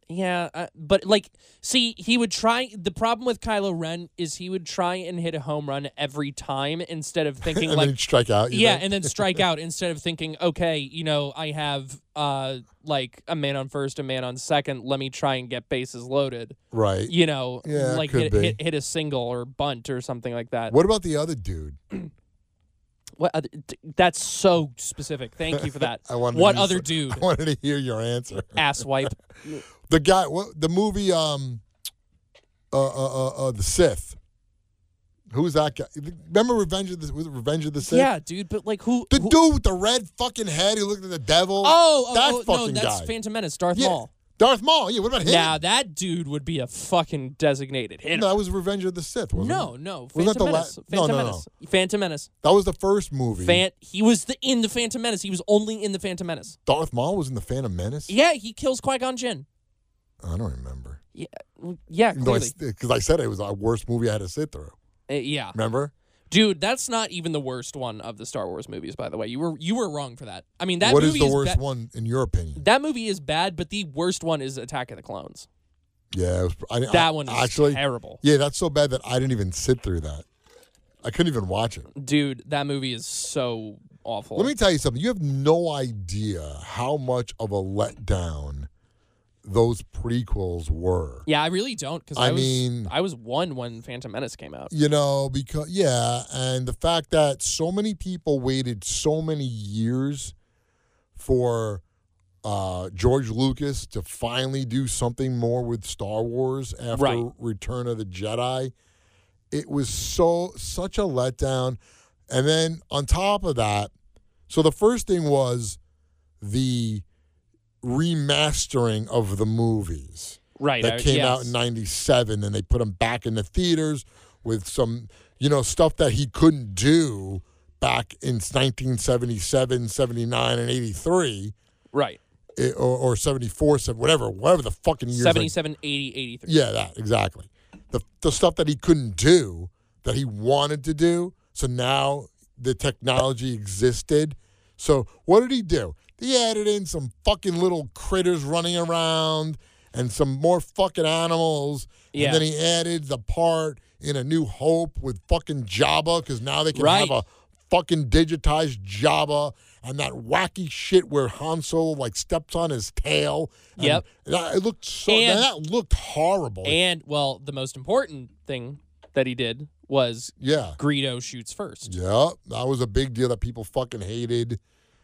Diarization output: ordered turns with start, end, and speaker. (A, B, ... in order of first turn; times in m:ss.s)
0:00.1-0:07.9 A
0:07.4-0:09.4 B
0:08.5-0:16.6 A
0:16.7-0:18.6 B
0:17.1-0:20.7 A
0:20.7-0:21.8 B
0:23.2-0:27.2 A
0:25.6-0:28.8 B
0:28.5-0:29.6 A
0:29.8-0:31.6 B
0:32.7-0:34.2 B
0:35.3-0:38.1 B
0:37.8-0:39.4 A
0:39.1-0:43.1 B
0:41.6-0:44.1 A
0:43.7-0:45.6 B
0:45.2-0:48.3 A
0:48.1-0:51.4 B
0:49.3-0:52.3 A
0:52.4-0:53.6 B
0:53.4-0:56.6 A
0:56.6-0:58.1 B
0:58.1-0:59.4 A
1:00.2-1:01.0 B
1:01.1-1:02.5 A
1:02.1-1:04.7 B
1:05.1-1:05.6 A
1:05.5-1:05.9 B
1:06.3-1:11.6 A
1:10.8-1:12.6 B
1:12.6-1:15.5 A
1:16.1-1:20.2 B
1:16.9-1:18.2 A
1:21.0-1:21.9 B
1:21.9-1:24.5 A
1:24.3-1:28.7 B
1:29.4-1:31.2 B
1:31.2-1:34.7 A
1:32.2-1:32.9 B
1:34.7-1:40.3 B
1:41.2-1:41.8 B
1:42.4-1:48.7 B
1:46.9-1:47.3 A
1:49.5-1:53.9 B
1:54.5-1:55.8 B
1:56.4-1:57.0 B
1:57.8-2:11.5 B
2:00.6-2:01.5 A
2:11.9-2:12.2 A
2:12.6-2:15.5 B
2:15.1-2:16.6 A
2:16.4-2:46.8 B
2:32.1-2:32.4 A
2:36.7-2:37.2 A
2:43.8-2:44.0 A
2:45.1-2:45.5 A
2:46.6-2:51.9 A
2:50.4-2:50.8 B
2:51.8-2:54.6 B